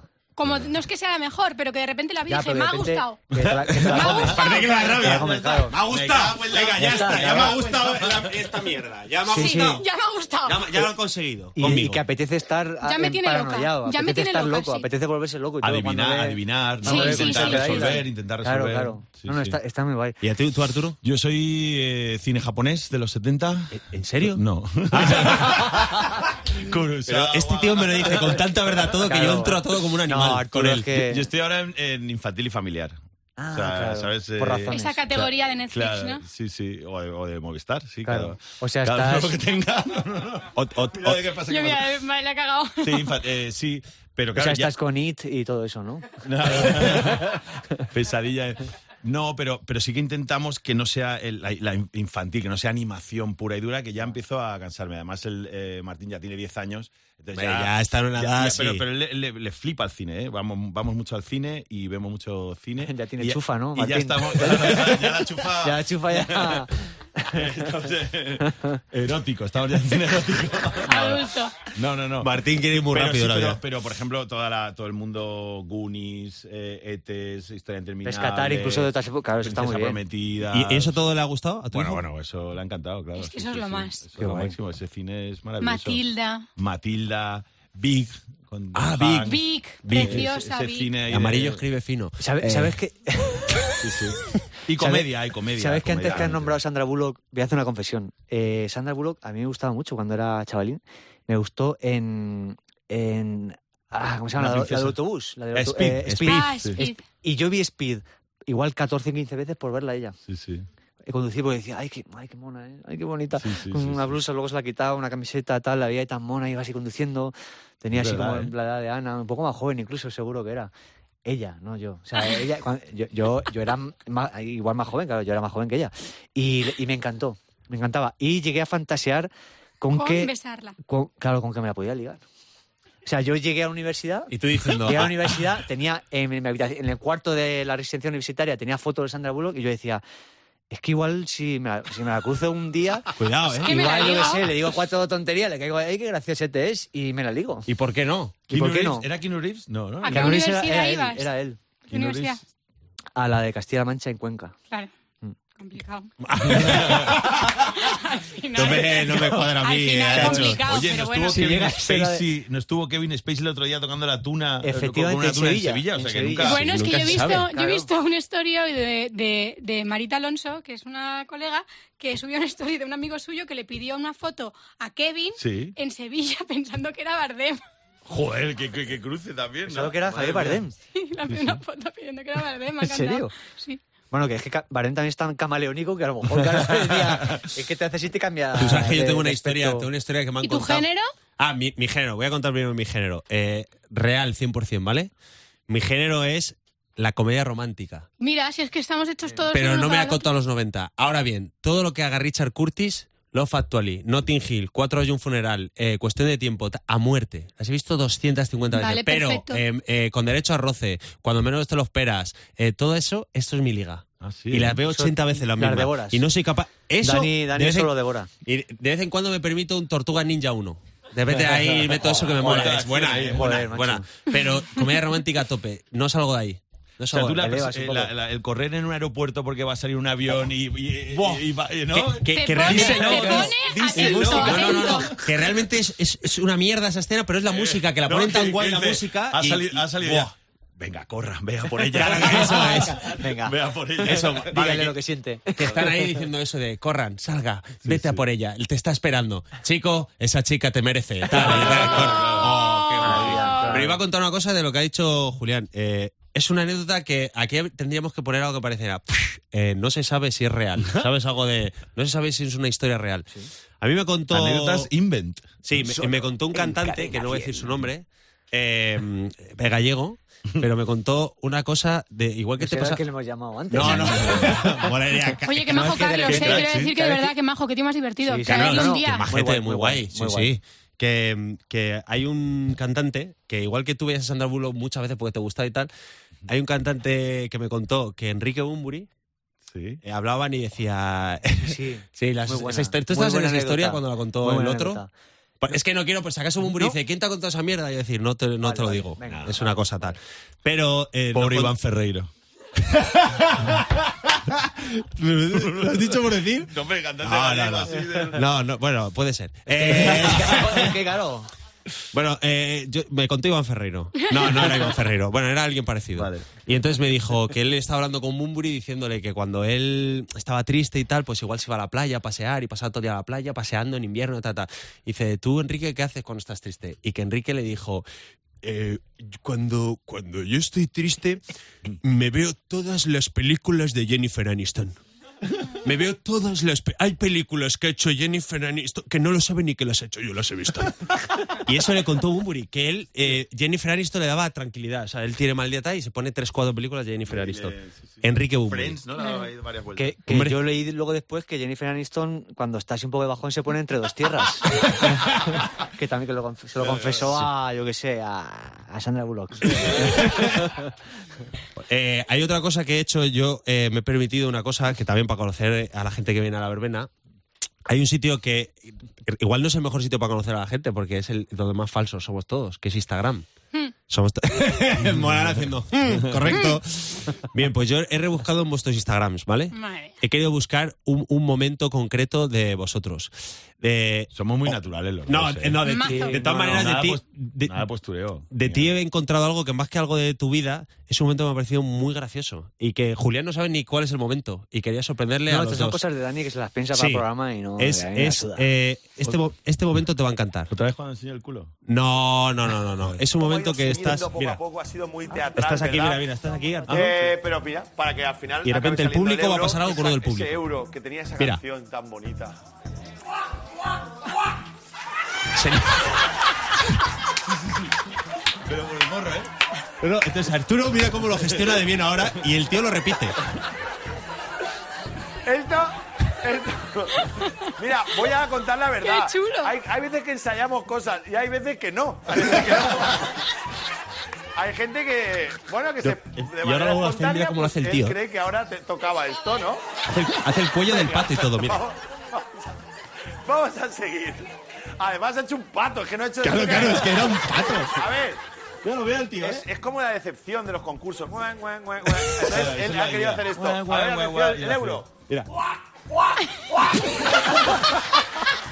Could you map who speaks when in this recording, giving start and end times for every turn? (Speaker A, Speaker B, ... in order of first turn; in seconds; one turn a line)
Speaker A: 0.4-5.3
Speaker B: 0.4-0.7
Speaker C: 2.3-5.8
Speaker D: 3.5-9.8
Speaker B: 5.8-8.4
Speaker C: 6.8-7.6
Speaker C: 9.3-9.8
Speaker A: 9.3-10.8
Speaker D: 10.4-12.0
Speaker C: 11.6-20.2
Speaker A: 12.8-14.9
Speaker B: 15.6-19.6
Speaker A: 16.8-18.0
Speaker D: 20.2-21.0
Speaker B: 21.0-28.9
Speaker D: 23.7-26.1
Speaker D: 27.0-30.9
Speaker C: 29.0-31.3
Speaker B: 30.9-33.0
Speaker C: 33.4-35.0
Speaker B: 33.5-41.9
Speaker A: 34.7-36.2
Speaker C: 38.1-39.3
Speaker D: 40.6-41.2
Speaker A: 41.5-43.1
Speaker B: 42.8-44.7
Speaker C: 44.4-47.4
Speaker B: 46.2-47.4
Speaker B: 47.9-66.7
Speaker D: 57.3-58.9
Speaker C: 62.8-67.5
Speaker B: 67.3-81.0
Speaker A: 70.8-71.7
Speaker D: 72.2-73.6
Speaker C: 78.0-80.0
Speaker D: 80.5-82.0
Speaker B: 81.7-86.0
Speaker A: 83.2-84.1
Speaker C: 84.2-84.5
Speaker A: 85.6-86.5
Speaker B: 86.6-91.6
Speaker D: 88.7-89.3
Speaker A: 89.2-90.9
Speaker D: 89.9-90.2
Speaker D: 91.1-92.8
Speaker C: 92.2-93.9
Speaker B: 93.8-96.6
Speaker C: 94.8-110.2
Speaker B: 104.3-105.0
Speaker B: 105.5-106.8
Speaker A: 106.2-107.1
Speaker B: 110.3-110.7
Speaker C: 111.1-120.7
Speaker B: 113.4-114.2
Speaker B: 117.9-118.5
Speaker C: 121.2-129.3
Speaker C: 129.8-130.3
Speaker A: 129.9-130.8
Speaker C: 130.8-132.2
Speaker C: 133.1-140.0
Speaker D: 134.3-135.3
Speaker C: 140.7-147.7
Speaker D: 143.2-144.1
Speaker A: 143.6-144.6
Speaker D: 147.7-148.3
Speaker C: 148.5-149.1
Speaker B: 148.5-150.4
Speaker A: 150.0-151.3
Speaker C: 150.1-151.6
Speaker A: 151.8-152.4
Speaker B: 151.9-152.4
Speaker C: 153.2-154.6
Speaker A: 155.5-156.1
Speaker D: 156.2-157.6
Speaker B: 156.4-157.3
Speaker A: 157.5-161.6
Speaker D: 158.5-160.6
Speaker C: 159.1-159.5
Speaker C: 160.1-160.5
Speaker B: 160.6-166.6
Speaker C: 161.2-162.2
Speaker C: 164.6-167.9
Speaker A: 166.4-177.6
Speaker D: 166.5-167.5
Speaker B: 175.4-175.8
Speaker B: 178.1-180.7
Speaker C: 179.7-180.8
Speaker A: 180.9-183.8
Speaker B: 181.3-181.6
Speaker C: 182.8-183.3
Speaker C: 184.1-189.9
Speaker D: 188.6-190.9
Speaker A: 190.4-191.1
Speaker D: 191.4-195.1
Speaker D: 195.7-198.1
Speaker A: 198.2-200.2
Speaker D: 199.5-217.9
Speaker A: 208.7-209.6
Speaker B: 214.2-214.8
Speaker C: 214.8-216.2
Speaker C: 217.0-218.3
Speaker D: 218.4-227.5
Speaker B: 221.3-223.7
Speaker C: 222.4-224.1
Speaker B: 227.1-235.2
Speaker C: 227.4-228.1
Speaker D: 231.1-240.3
Speaker A: 232.3-235.2
Speaker C: 234.0-234.9
Speaker B: 237.5-244.8
Speaker D: 241.8-243.1
Speaker C: 242.0-246.2
Speaker D: 244.0-245.0
Speaker D: 245.6-263.3
Speaker B: 247.8-248.2
Speaker B: 251.3-253.5
Speaker C: 251.4-252.3
Speaker C: 253.0-254.0
Speaker A: 253.4-253.8
Speaker B: 260.8-261.1
Speaker D: 263.8-264.9
Speaker B: 264.3-266.2
Speaker D: 265.6-273.0
Speaker C: 266.6-267.6
Speaker C: 272.6-274.9
Speaker D: 273.7-276.6
Speaker B: 273.8-274.8
Speaker A: 275.4-279.3
Speaker C: 275.7-277.3
Speaker B: 276.3-276.9
Speaker C: 278.2-280.5
Speaker D: 278.5-285.9
Speaker D: 286.5-289.1
Speaker B: 289.7-290.0
Speaker D: 290.0-295.0
Speaker C: 291.6-295.1
Speaker D: 295.6-301.8
Speaker C: 296.7-297.0
Speaker C: 298.6-299.8
Speaker B: 299.2-299.6
Speaker B: 301.3-302.3
Speaker D: 302.8-310.9
Speaker B: 305.5-308.5
Speaker C: 309.7-311.5
Speaker B: 309.9-310.9
Speaker D: 312.1-328.1
Speaker A: 314.4-314.7
Speaker B: 316.1-316.6
Speaker D: 328.6-331.4
Speaker D: 332.0-335.0
Speaker D: 335.7-349.0
Speaker B: 347.3-350.2
Speaker A: 349.2-349.5
Speaker C: 350.0-360.9
Speaker D: 350.3-350.6
Speaker B: 356.8-357.3
Speaker D: 359.9-360.7
Speaker D: 361.8-367.1
Speaker D: 367.9-373.5
Speaker D: 374.1-384.8
Speaker B: 375.0-376.6
Speaker A: 376.5-376.8
Speaker A: 379.7-380.2
Speaker B: 384.3-385.8
Speaker D: 385.3-387.9
Speaker A: 385.8-386.4
Speaker C: 386.0-386.9
Speaker B: 386.4-388.9
Speaker D: 388.5-396.0
Speaker C: 395.5-398.7
Speaker D: 396.9-397.2
Speaker D: 397.8-400.7
Speaker B: 400.7-401.7
Speaker D: 401.9-404.6
Speaker E: 403.3-406.2
Speaker D: 405.5-407.1
Speaker B: 406.9-407.1
Speaker E: 406.9-412.6
Speaker D: 408.6-410.6
Speaker D: 415.5-416.2
Speaker B: 417.5-417.9
Speaker B: 418.6-419.5
Speaker D: 420.0-423.4
Speaker E: 425.4-427.2
Speaker A: 427.2-427.7
Speaker E: 427.8-433.3
Speaker A: 429.0-429.7
Speaker E: 434.6-439.8
Speaker D: 436.0-438.2
Speaker D: 440.1-441.8
Speaker E: 440.8-442.7
Speaker E: 443.4-448.4
Speaker D: 446.4-448.0
Speaker B: 448.8-449.6
Speaker E: 449.4-455.1
Speaker B: 452.3-455.1
Speaker B: 457.1-457.7